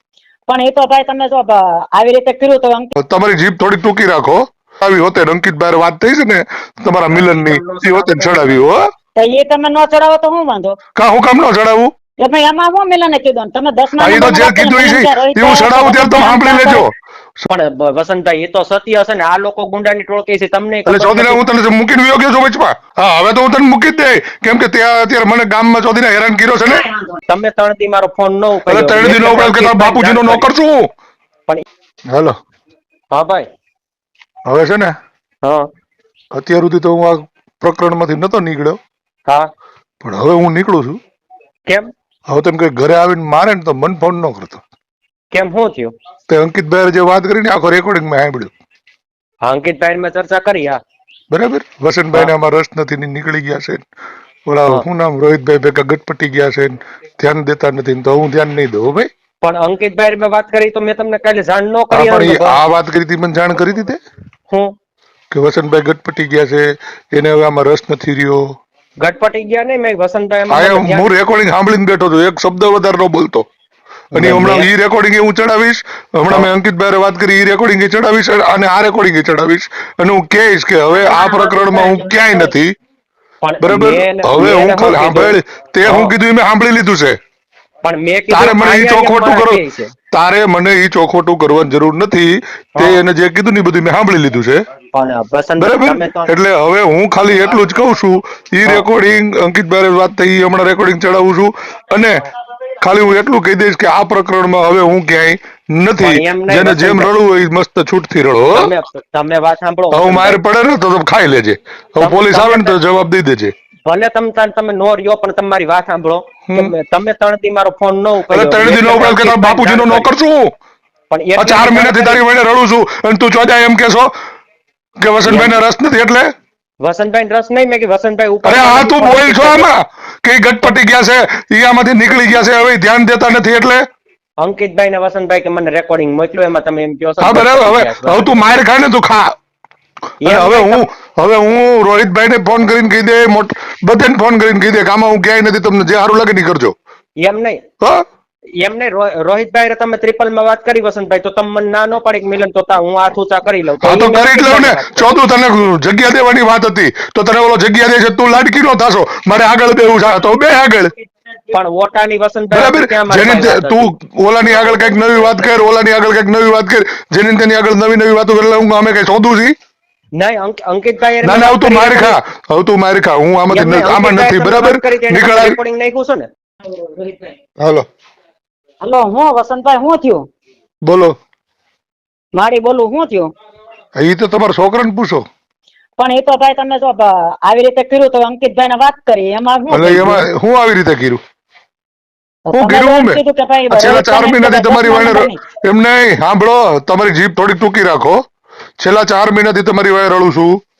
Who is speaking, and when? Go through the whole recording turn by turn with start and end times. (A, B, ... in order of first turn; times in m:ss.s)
0:00.5-0:02.9 A
0:03.0-0:08.8 B
0:07.1-0:08.6 C
0:09.2-0:10.8 A
0:11.0-0:11.9 B
0:12.2-0:16.9 A
0:14.0-0:17.5 B
0:17.5-0:21.4 C
0:20.8-0:26.8 B
0:26.7-0:27.2 A
0:27.3-0:30.5 C
0:28.7-0:30.9 B
0:32.1-0:32.3 B
0:33.1-0:33.5 C
0:34.5-0:34.9 B
0:36.3-0:38.8 B
0:40.0-0:41.0 B
0:42.3-0:44.6 B
0:45.3-0:45.9 C
0:46.3-0:48.5 B
0:49.4-0:50.8 C
0:51.3-0:53.8 B
0:54.5-0:59.1 B
0:59.4-1:02.6 C
1:01.9-1:04.0 B
1:04.5-1:04.7 C
1:05.3-1:08.4 B
1:09.0-1:11.1 C
1:10.5-1:13.4 B
1:14.1-1:14.7 C
1:14.1-1:22.7 B
1:21.2-1:22.4 C
1:23.4-1:26.1 C
1:23.6-1:27.2 B
1:27.8-1:29.9 C
1:28.3-1:29.6 B
1:30.1-1:34.6 B
1:34.9-1:36.3 C
1:35.6-1:42.2 B
1:42.8-1:48.7 B
1:46.0-1:47.1 C
1:48.5-1:50.4 C
1:49.9-1:53.5 B
1:52.0-1:52.8 C
1:53.8-2:00.1 C
1:56.5-1:56.7 B
1:58.3-2:00.5 B
2:01.1-2:02.2 C
2:01.4-2:04.1 B
2:05.0-2:06.3 B
2:05.2-2:05.6 C
2:06.8-2:09.7 C
2:08.4-2:13.8 B
2:14.4-2:18.4 C
2:17.2-2:19.3 B
2:20.2-2:20.8 C
2:20.2-2:26.7 B
2:27.2-2:27.6 C
2:28.6-2:35.1 C
2:33.8-2:40.9 B
2:41.5-2:43.9 C
2:42.5-2:49.5 B
2:50.1-2:52.2 C
2:51.2-2:55.6 B
2:53.5-2:56.3 C
2:56.7-2:57.3 A
2:57.6-2:57.9 B
2:58.8-3:00.3 A
3:00.8-3:01.1 B
3:02.3-3:03.3 A
3:04.0-3:05.2 B
3:06.0-3:10.2 A
3:09.7-3:11.2 B
3:12.5-3:15.4 A
3:12.5-3:18.2 B
3:18.8-3:20.6 B